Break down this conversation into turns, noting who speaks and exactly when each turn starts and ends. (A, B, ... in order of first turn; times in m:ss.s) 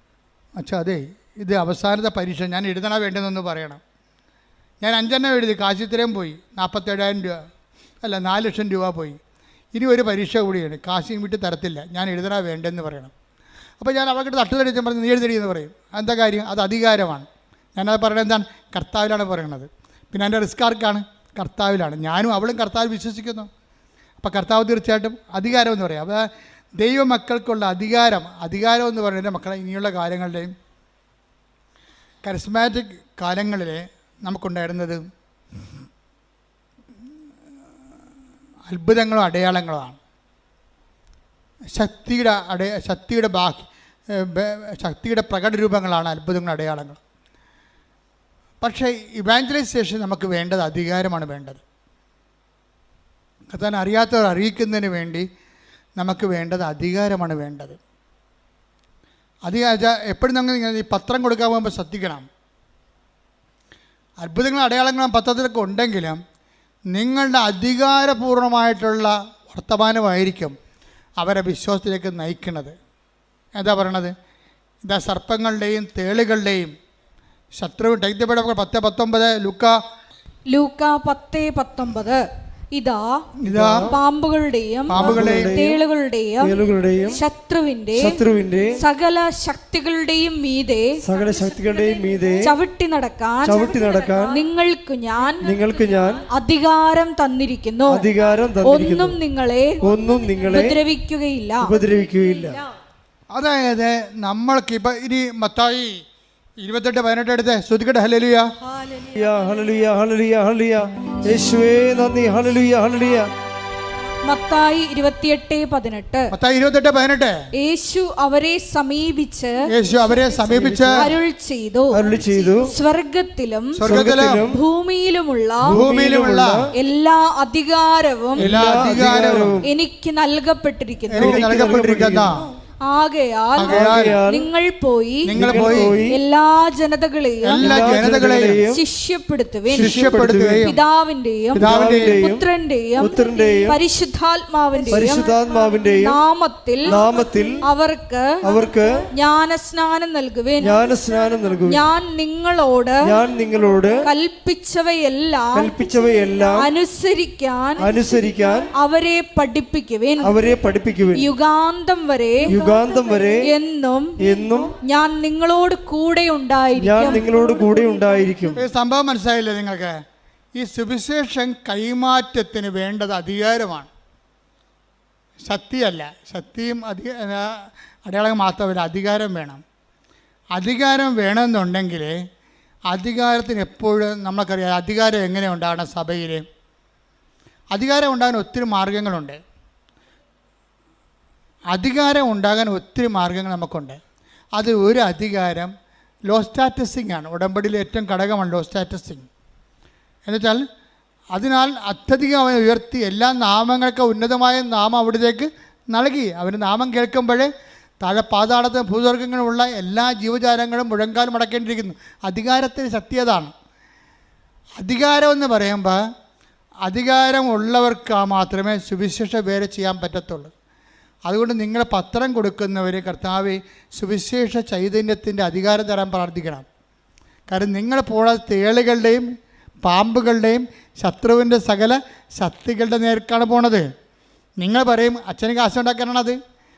0:00.6-0:03.8 A
0:04.8-0:07.4 A
0:08.0-0:09.2 A
0:09.7-0:13.1 A
0:13.8-0:23.5 A
0:24.2-0:26.3 A
0:26.8-0:30.5 A
0:32.2-0:35.0 A
0:38.7-0:40.0 A
0:41.7-0:47.0 A
0:48.6-0:51.6 A
0:53.5-0:55.2 A
0:56.0-0:57.8 A
0:59.4-1:02.2 A
1:04.2-1:06.2 A
1:06.9-1:10.5 A
1:11.2-1:12.7 A
1:13.6-1:14.1 A
1:14.8-1:16.7 A
1:17.6-1:19.7 A
1:20.5-1:22.2 B
1:22.7-1:23.1 B
1:23.4-1:23.9 A
1:23.4-1:23.9 C
1:23.9-1:28.2 B
1:24.9-1:25.5 A
1:24.9-1:25.8 C
1:26.4-1:27.2 C
1:27.9-1:28.8 C
1:28.8-1:31.0 B
1:31.0-1:32.5 C
1:32.4-1:35.6 B
1:33.4-1:34.4 C
1:35.4-1:36.2 C
1:36.3-1:38.1 B
1:37.9-1:39.2 C
1:38.6-1:39.8 B
1:39.8-1:40.8 C
1:40.4-1:41.8 B
1:41.6-1:42.6 C
1:43.3-1:46.0 A
1:46.6-1:48.5 A
1:48.9-1:53.3 C
1:54.2-1:56.3 B
1:56.3-1:57.4 A
1:57.6-1:59.5 B
1:59.7-2:01.0 A
2:00.4-2:01.1 C
2:01.0-2:03.7 B
2:01.9-2:02.7 C
2:03.8-2:04.4 A
2:03.8-2:04.6 C
2:04.4-2:05.8 B
2:05.6-2:06.6 C
2:05.7-2:06.6 A
2:06.7-2:08.5 B
2:08.4-2:09.7 C
2:08.4-2:09.6 A
2:09.6-2:11.7 B
2:11.1-2:12.5 A
2:11.2-2:12.4 C
2:12.9-2:25.3 B
2:13.6-2:14.2 A
2:13.6-2:14.5 C
2:15.2-2:16.0 A
2:15.3-2:16.2 C
2:17.4-2:18.6 A
2:17.6-2:18.8 C
2:19.7-2:20.7 C
2:19.7-2:20.8 A
2:21.5-2:23.8 C
2:21.6-2:22.2 A
2:24.9-2:26.2 C
2:25.8-2:27.0 B
2:26.9-2:27.6 C
2:27.6-2:28.3 B
2:28.4-2:29.0 C
2:29.1-2:30.8 B
2:30.6-2:31.8 C
2:31.7-2:33.0 B
2:33.0-2:34.1 C
2:34.0-2:35.7 B
2:35.5-2:36.7 C
2:36.5-2:37.9 B
2:37.8-2:38.7 C
2:38.7-2:40.3 B
2:40.2-2:41.3 C
2:41.1-2:42.9 B
2:42.5-2:43.4 C
2:43.4-2:44.1 B
2:44.2-2:44.7 C
2:44.7-2:48.6 B
2:46.8-2:48.6 C
2:48.6-2:49.9 A
2:50.5-2:53.9 A
2:55.4-2:59.6 A
3:00.6-3:02.2 A
3:02.9-3:06.4 A
3:07.7-3:09.4 A
3:11.7-3:14.0 A
3:14.6-3:15.7 A
3:16.3-3:19.3 A
3:20.2-3:20.6 A
3:21.3-3:27.5 A
3:28.0-3:33.5 A
3:34.8-3:36.0 A
3:36.8-3:40.5 A
3:41.3-3:46.6 A
3:47.5-3:49.3 A
3:49.8-3:53.9 A
3:54.6-3:56.4 A